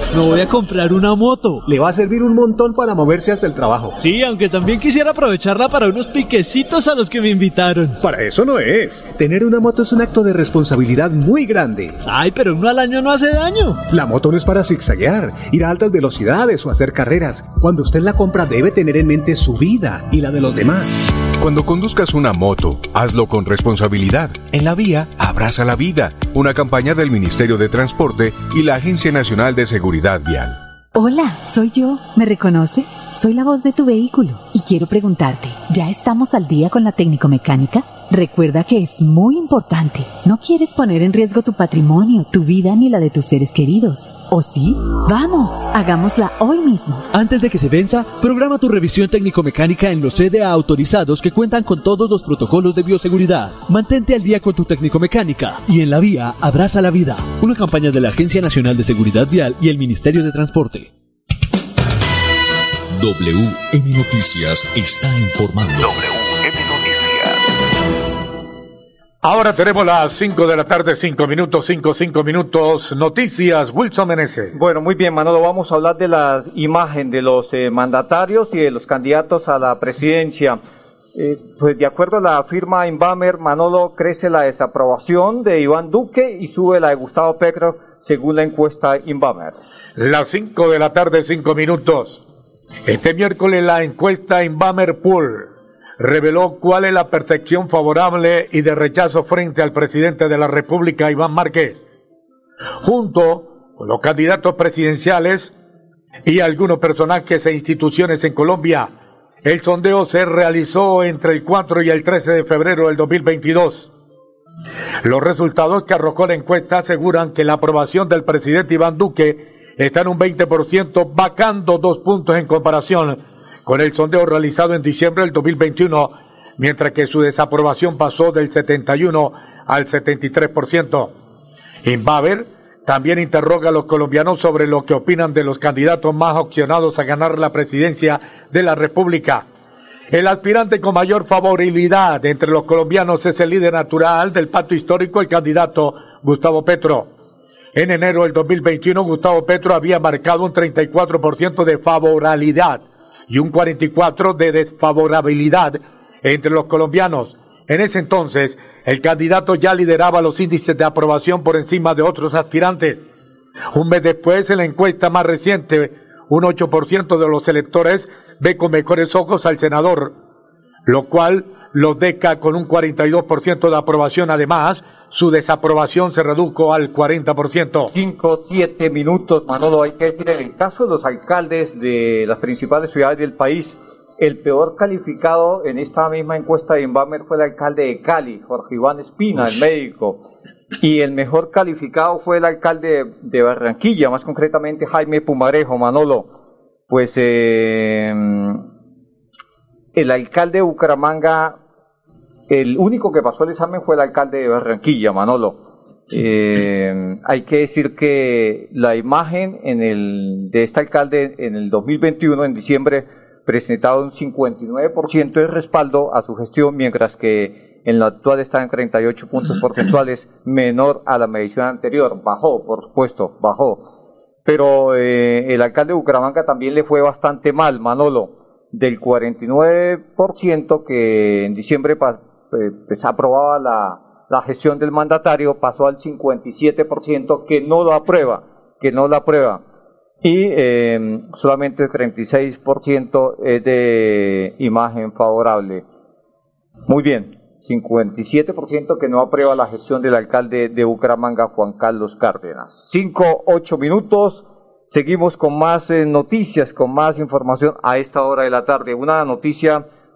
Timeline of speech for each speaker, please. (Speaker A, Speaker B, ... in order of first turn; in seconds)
Speaker A: 0.1-1.6, 4.0-8.0, 12.0-13.8, 47.1-60.9
Speaker B: 1.6-4.0, 8.0-12.0, 13.9-21.1
Speaker C: 21.4-30.6
Speaker D: 30.9-47.1
Speaker E: 62.9-66.1
Speaker F: 69.2-74.5, 90.0-92.2, 92.8-101.8, 102.8-105.5, 106.2-108.9, 109.4-113.9, 115.0-131.1, 131.8-139.4, 140.1-147.1, 147.7-163.0, 163.7-170.1, 170.8-177.9
Speaker G: 74.5-80.6, 81.1-89.6, 177.9-190.2, 190.8-196.3, 196.9-198.6, 199.9-201.6, 202.5-205.6, 206.1-223.8, 224.4-239.6, 240.2-245.8, 246.9-259.8